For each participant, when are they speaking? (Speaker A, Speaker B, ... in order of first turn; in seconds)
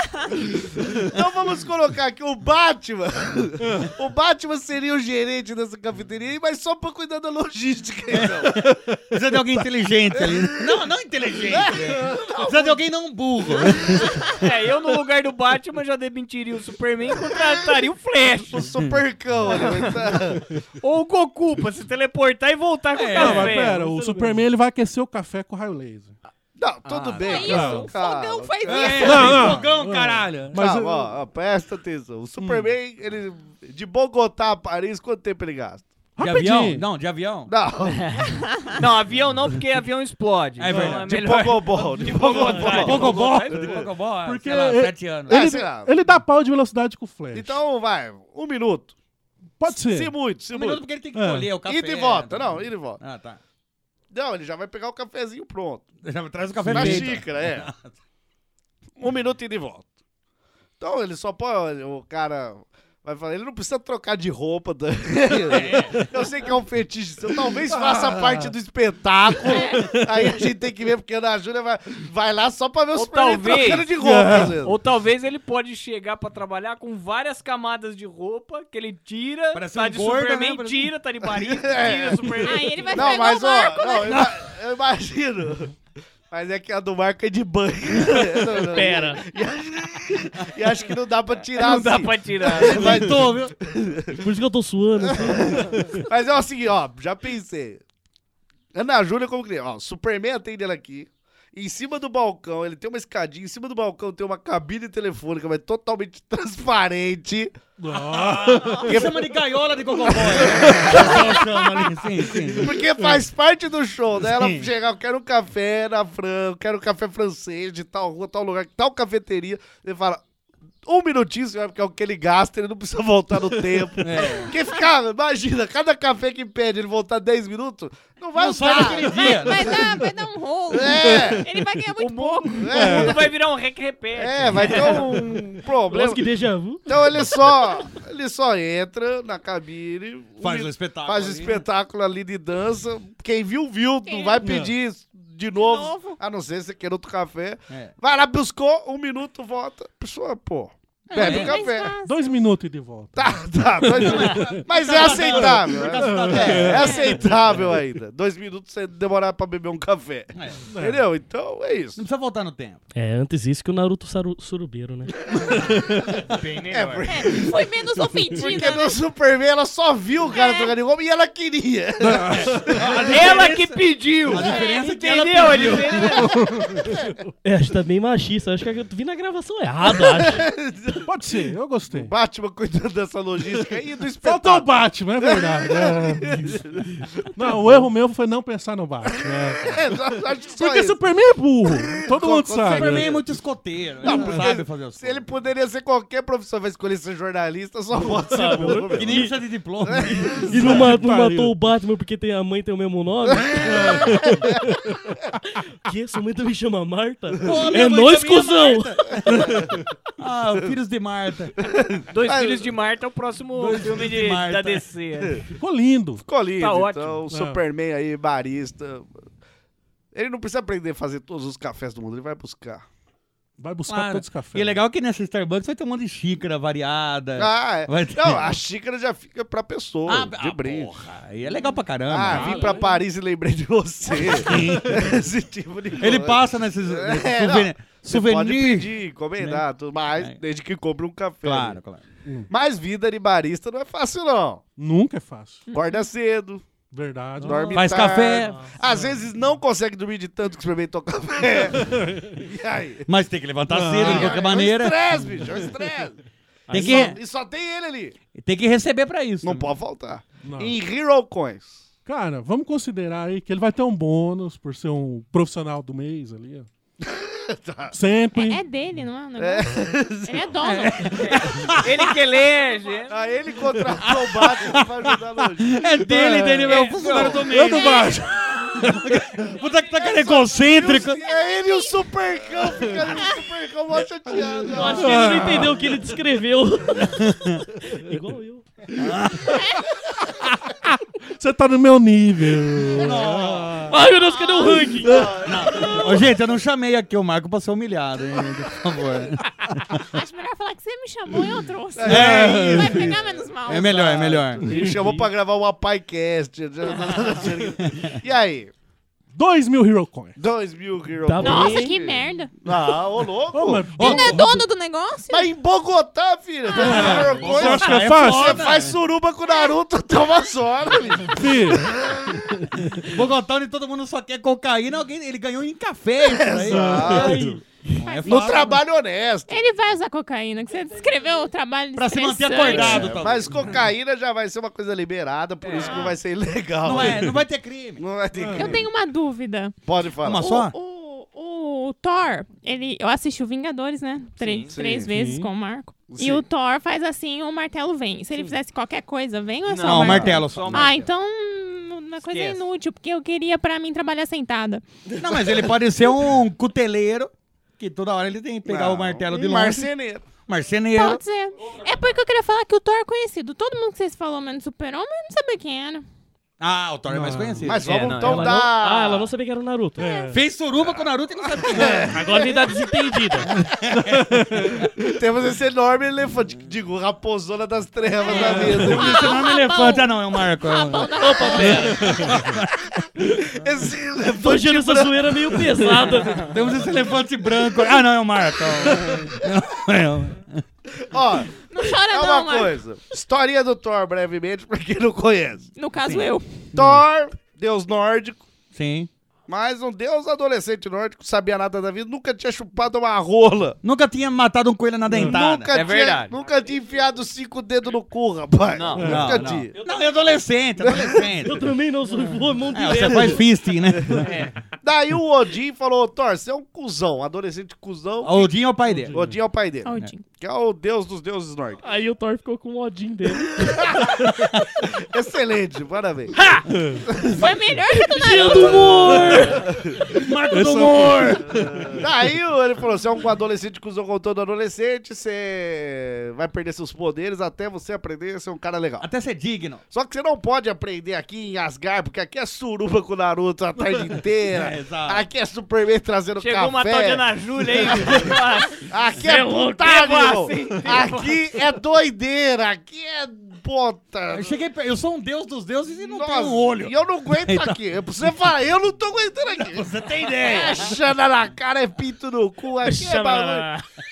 Speaker A: 0.5-8.6, 10.1-10.8, 11.4-12.8, 18.4-20.5, 26.6-29.4, 30.5-35.9, 37.5-38.3, 41.0-43.9, 45.3-45.9, 47.3-48.9, 49.7-51.0, 51.6-53.0, 54.1-55.9, 56.7-57.7, 59.0-59.9, 60.8-74.8, 81.2-85.8, 86.3-94.2, 95.1-97.8, 98.7-107.6, 108.8-109.3, 110.0-111.8, 112.5-120.2, 120.8-129.9, 130.7-131.4, 132.6-133.3, 134.2-136.2, 136.9-152.0, 153.2-162.0, 166.7-167.7, 168.2-173.3, 176.3-177.1, 180.1-181.1, 181.9-187.8, 189.2-191.0, 191.7-193.1, 194.0-199.3, 199.9-200.9, 203.5-204.7, 211.7-212.7, 216.2-219.1, 220.1-222.8, 227.4-230.9, 232.1-241.8, 242.5-244.6, 245.7-246.7, 247.4-253.1, 254.0-256.2, 256.7-258.2, 259.4-261.9, 267.0-267.9, 269.4-270.9, 273.1-277.5, 280.0-285.8, 295.0-296.2, 302.1-308.7, 310.4-313.9, 315.3-322.6, 326.2-327.5, 328.2-329.7, 332.7-337.3, 338.0-338.9, 339.8-340.6, 344.7-345.1, 346.1-346.4, 349.9-350.4, 358.7-360.3, 367.6-369.3, 371.6-372.8, 375.0-379.3, 383.2-386.4, 391.0-395.7, 396.7-398.5, 399.5-403.8, 405.1-409.7, 410.8-411.3, 414.8-421.8, 423.6-424.3, 424.9-426.4, 427.1-427.4, 429.6-430.0, 431.5-439.1, 439.9-454.6, 456.0-463.7
Speaker B: 8.2-14.4, 22.9-23.6, 28.6-30.4, 36.2-37.5, 40.6-41.7, 42.5-45.4, 50.5-53.4, 56.0-57.9, 65.5-66.0, 79.5-80.9, 84.0-84.3, 92.6-93.5, 108.1-112.8, 114.2-114.7, 124.0-124.5, 128.3-129.9, 140.4-141.6, 151.1-151.6, 154.0-157.7, 160.4-160.6, 162.0-162.8, 166.3-167.0, 172.7-176.1, 192.7-195.3, 198.9-200.4, 207.4-211.6, 213.6-214.9, 223.9-228.6, 230.1-232.7, 234.3-235.2, 236.0-239.6, 241.4-242.0, 247.7-248.7, 253.1-255.1, 256.7-257.2, 258.3-259.7, 270.8-272.1, 274.0-274.9, 275.6-278.1, 278.7-281.2, 287.1-287.6, 289.0-289.6, 293.0-293.9, 295.4-299.4, 302.0-303.1, 303.7-304.7, 307.9-308.2, 314.0-314.5, 317.2-319.0, 322.9-327.3, 328.0-328.8, 332.0-333.8, 336.8-338.0, 340.2-340.7, 349.8-350.9, 355.1-361.2, 366.6-368.5, 370.3-372.2, 373.5-374.8, 378.3-382.7, 386.3-390.6, 396.0-397.0, 398.7-399.1, 403.8-405.8, 409.0-411.7, 412.7-414.3, 418.2-419.2, 430.2-431.6, 439.0-439.8, 444.5-445.2, 454.3-457.8, 459.6-461.0
Speaker C: 14.4-18.7, 19.4-20.2, 20.8-23.8, 26.9-27.5, 37.9-43.9, 72.9-73.9, 74.4-83.2, 91.6-93.0, 132.0-135.3, 166.5-167.0, 173.0-176.2, 212.1-215.4, 216.6-217.2, 271.1-273.1, 335.6-336.0, 344.4-344.7, 349.7-351.1, 352.2-352.6, 367.9-368.6, 405.7-406.4, 408.7-409.2, 414.3-414.5, 446.4-451.5
Speaker D: 23.1-26.1, 27.4-27.9, 29.0-31.1, 32.4-32.7, 36.2-36.9, 44.2-47.6, 49.6-50.1, 51.1-51.6, 56.6-57.2, 67.7-68.5, 73.9-74.6, 107.8-109.0, 132.7-133.2, 144.4-144.7, 152.0-154.7, 155.3-157.3, 160.7-161.0, 165.6-166.0, 172.0-172.8, 176.1-177.0, 181.1-182.1, 184.2-186.6, 187.3-189.8, 190.6-193.3, 194.0-194.6, 200.4-201.6, 203.6-204.5, 215.6-216.2, 217.3-217.6, 223.6-224.8, 244.8-245.6, 246.9-248.0, 251.8-252.4, 253.7-254.4, 260.4-260.8, 262.1-266.7, 267.9-268.6, 276.2-276.6, 277.4-279.3, 284.9-285.9, 291.3-293.8, 302.0-303.2, 309.3-310.4, 313.5-314.5, 316.8-318.7, 321.3-321.9, 326.7-327.6, 338.4-338.8, 345.1-345.5, 367.1-367.8, 370.0-370.3, 374.0-374.8, 405.1-405.4, 409.0-409.4, 426.7-427.0, 430.2-432.0
Speaker E: 23.6-24.4, 88.7-89.2, 94.2-96.0, 135.9-136.8, 162.9-165.1, 177.4-180.4, 198.2-199.3, 200.1-204.2, 205.8-208.9, 232.4-232.7, 247.4-248.8, 256.7-257.1, 284.6-288.6, 293.9-295.3, 304.7-305.3, 311.2-311.9, 368.2-370.2, 372.0-373.5, 381.1-382.3, 384.4-386.4, 411.4-413.5, 418.9-419.1, 421.8-424.1, 428.0-429.7, 449.2-449.7, 462.9-463.8
Speaker F: 27.2-29.5, 69.5-69.9, 82.4-84.2, 128.7-132.8, 144.0-144.4, 145.6-146.2, 151.2-152.2, 156.8-157.1, 167.0-169.0, 170.3-170.8, 174.3-175.0, 175.7-176.2, 268.3-271.2, 277.7-278.1, 281.2-282.1, 282.9-283.4, 294.1-295.1, 300.0-304.2, 311.4-312.5, 314.0-315.5, 316.7-317.2, 319.5-319.8, 327.1-328.8, 329.5-333.3, 335.8-336.2, 338.6-339.8, 340.3-354.9, 360.9-366.1, 370.0-370.4, 378.3-382.3, 391.6-392.8, 395.8-396.7, 419.8-420.3, 427.3-429.4